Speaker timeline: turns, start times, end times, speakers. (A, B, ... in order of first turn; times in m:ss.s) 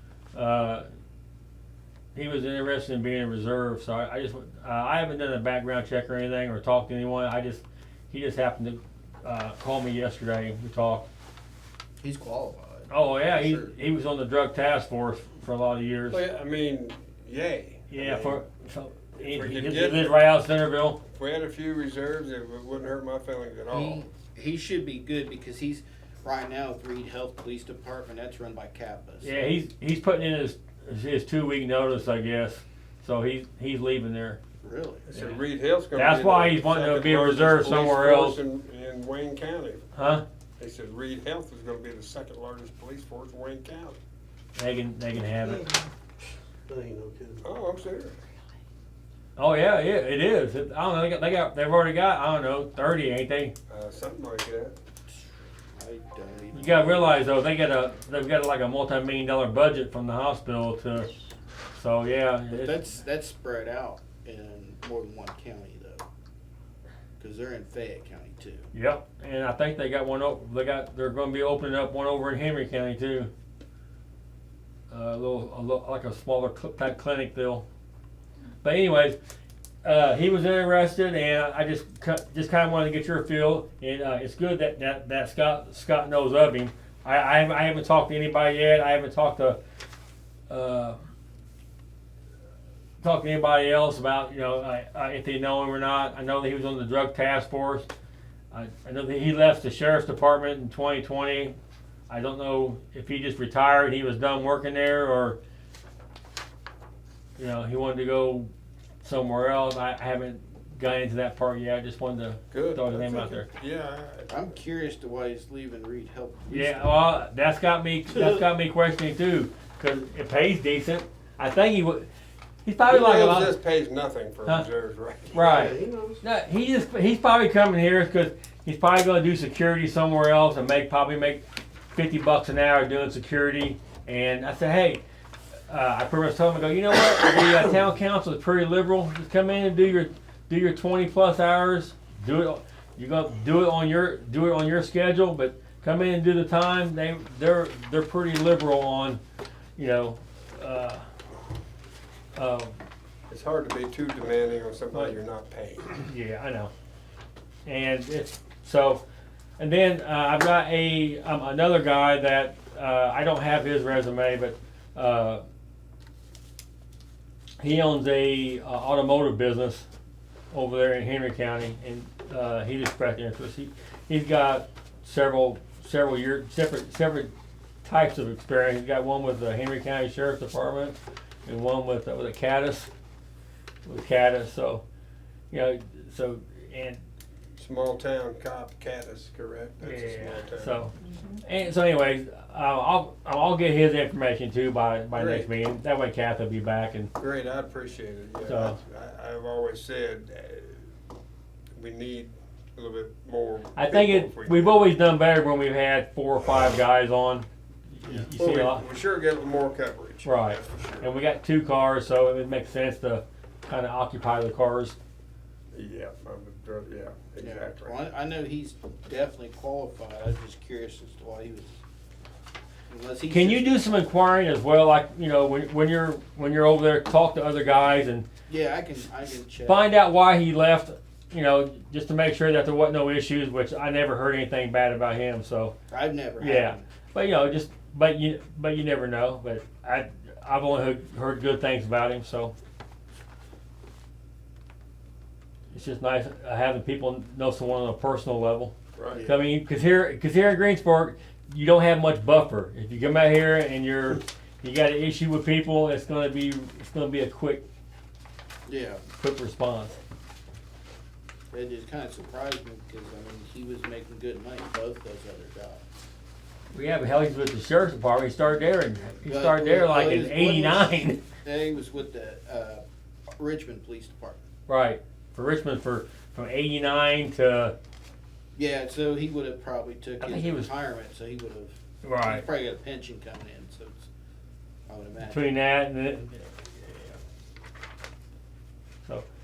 0:00.3-0:00.8 A
0:02.1-0:11.1 A
0:12.0-0:13.7 B
0:12.9-0:16.2 A
0:16.1-0:18.4 C
0:17.9-0:21.0 A
0:19.2-0:20.2 C
0:21.1-0:24.1 C
0:23.7-0:29.5 B
0:29.2-0:34.4 A
0:34.6-0:35.1 B
0:35.1-0:39.9 C
0:35.1-0:35.4 A
0:35.9-0:38.4 A
0:39.9-0:40.2 A
0:40.6-0:44.0 C
0:44.6-0:45.7 A
0:45.4-0:45.9 D
0:46.6-0:47.4 D
0:47.4-0:48.2 C
0:49.4-0:53.5 A
0:53.7-0:54.7 C
0:55.7-0:57.3 B
0:56.5-1:01.1 A
1:01.7-1:02.8 A
1:02.5-1:06.0 B
1:07.2-1:08.7 B
1:08.7-1:13.3 A
1:14.9-1:17.6 A
1:18.6-1:19.2 A
1:19.8-1:29.6 A
1:30.5-1:31.0 A
1:33.0-1:37.9 A
1:38.5-1:41.6 A
1:42.1-1:45.4 A
1:47.4-1:48.5 A
1:49.0-1:53.5 A
1:52.5-1:54.5 C
1:54.3-1:57.0 B
1:56.5-2:02.1 A
2:02.6-2:03.5 A
2:02.9-2:05.7 C
2:05.3-2:15.0 A
2:05.5-2:06.2 D
2:15.7-2:29.2 A
2:29.8-2:31.0 A
2:32.3-2:32.7 A
2:33.3-2:36.1 C
2:34.9-2:35.2 A
2:36.1-2:36.7 A
2:37.6-2:39.0 A
2:39.6-2:45.4 A
2:47.6-2:49.9 A
2:50.5-2:57.3 A
2:57.8-3:02.9 A
3:03.8-3:04.8 A
3:05.5-3:07.0 A
3:07.6-3:10.8 C
3:09.8-3:17.1 A
3:15.1-3:15.4 C
3:17.2-3:20.8 C
3:18.4-3:18.8 A
3:21.7-3:24.9 C
3:23.8-3:28.8 A
3:28.3-3:31.1 C
3:30.2-3:35.0 A
3:35.7-3:38.0 C
3:37.4-3:41.8 B
3:42.9-3:43.8 B
3:43.3-3:48.2 A
3:48.5-3:49.9 B
3:49.6-3:55.8 A
3:55.9-3:56.8 B
3:56.4-4:02.5 A
4:05.7-4:17.6 A
4:09.0-4:09.2 C
4:09.1-4:09.4 B
4:18.6-4:19.0 B
4:19.2-4:20.0 A
4:21.5-4:25.8 B
4:26.7-4:31.2 A
4:29.2-4:32.8 B
4:33.4-4:34.5 B
4:34.7-4:37.7 A
4:38.6-4:44.1 B
4:40.2-4:40.7 A
4:42.0-4:42.4 A
4:44.9-4:45.5 B
4:45.2-4:47.2 A